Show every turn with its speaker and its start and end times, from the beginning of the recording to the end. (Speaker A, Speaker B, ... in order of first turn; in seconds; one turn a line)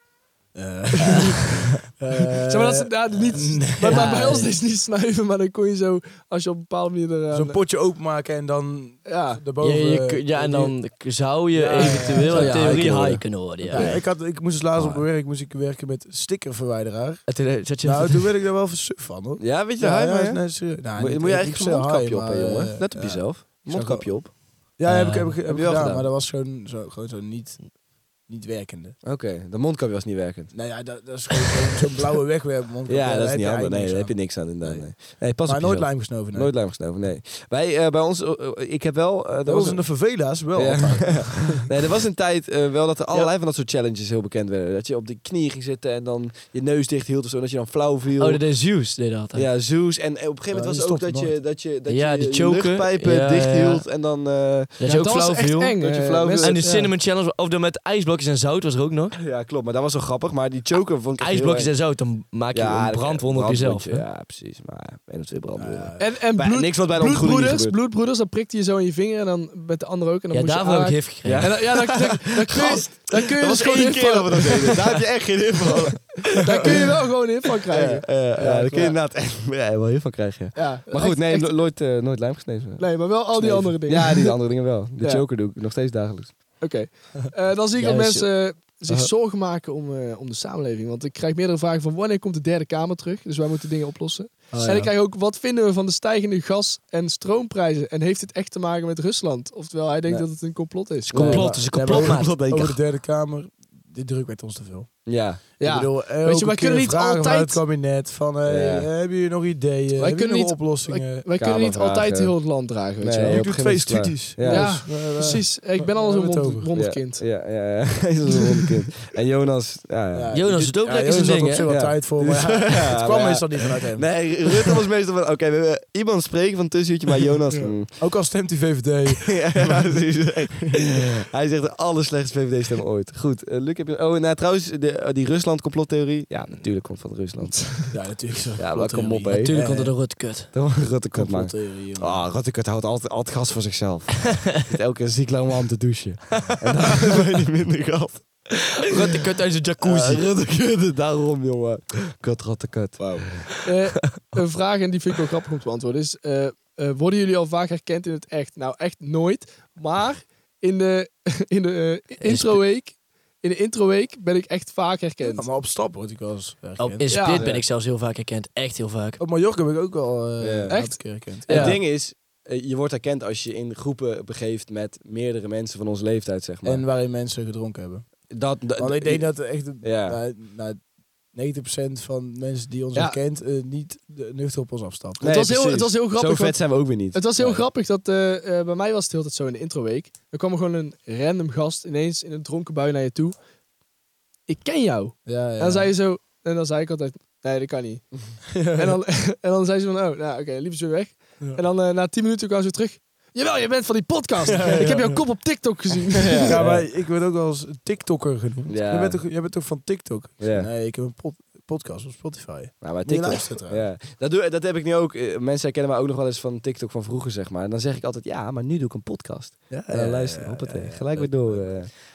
Speaker A: 0.5-4.3
Speaker B: 2.5-7.6
Speaker C: 3.8-4.5
Speaker A: 7.3-10.8
Speaker B: 9.1-9.4
Speaker C: 9.6-14.1
Speaker A: 11.5-29.0
Speaker D: 12.2-14.0
Speaker C: 17.3-18.3
Speaker D: 19.4-24.3
Speaker C: 24.9-25.4
Speaker D: 25.5-26.1
Speaker D: 29.0-30.8
Speaker A: 30.5-36.5
Speaker D: 32.9-48.4
Speaker A: 39.4-41.6
Speaker C: 48.2-49.5
Speaker D: 49.3-54.8
Speaker A: 50.5-51.4
Speaker C: 51.9-53.8
Speaker C: 54.8-55.8
Speaker B: 54.8-56.9
Speaker D: 55.8-56.6
Speaker C: 56.4-59.1
Speaker D: 59.2-61.7
Speaker C: 61.2-64.0
Speaker D: 62.5-67.8
Speaker A: 65.5-66.1
Speaker B: 66.0-74.8
Speaker C: 70.3-71.6
Speaker D: 71.2-76.9
Speaker B: 76.3-78.9
Speaker D: 77.7-86.6
Speaker A: 78.3-78.9
Speaker B: 80.5-81.5
Speaker B: 82.8-84.4
Speaker B: 85.0-85.2
Speaker B: 86.6-101.4
Speaker C: 87.8-88.3
Speaker A: 94.5-94.9
Speaker D: 94.5-94.8
Speaker C: 101.1-102.4
Speaker D: 101.1-102.8
Speaker A: 101.1-111.3
Speaker D: 105.1-105.4
Speaker B: 105.6-107.6
Speaker D: 108.5-108.9
Speaker B: 110.0-113.4
Speaker D: 111.3-112.3
Speaker D: 113.0-115.0
Speaker A: 113.2-116.7
Speaker B: 114.5-117.2
Speaker D: 116.7-120.3
Speaker A: 120.1-124.7
Speaker C: 120.3-121.7
Speaker D: 121.7-128.1
Speaker A: 127.5-129.9
Speaker D: 129.2-137.9
Speaker A: 130.5-131.0
Speaker A: 137.9-140.0
Speaker D: 138.6-139.6
Speaker C: 139.3-140.5
Speaker D: 140.5-148.8
Speaker A: 141.1-142.2
Speaker C: 148.8-150.2
Speaker D: 149.8-153.4
Speaker B: 153.0-165.5
Speaker C: 162.2-162.6
Speaker A: 165.2-167.3
Speaker C: 166.8-169.2
Speaker B: 167.1-167.4
Speaker D: 167.3-167.6
Speaker A: 169.2-171.8
Speaker D: 170.4-170.8
Speaker B: 170.7-171.7
Speaker D: 171.5-176.8
Speaker C: 171.5-171.8
Speaker A: 176.6-185.3
Speaker D: 178.3-180.2
Speaker D: 185.2-187.2
Speaker B: 185.2-193.3
Speaker A: 187.4-187.6
Speaker B: 194.5-206.6
Speaker A: 195.2-195.9
Speaker A: 198.5-199.0
Speaker A: 204.5-205.5
Speaker D: 206.2-206.8
Speaker A: 206.4-213.9
Speaker D: 208.7-209.3
Speaker D: 210.4-210.7
Speaker D: 212.8-221.9
Speaker A: 219.7-221.9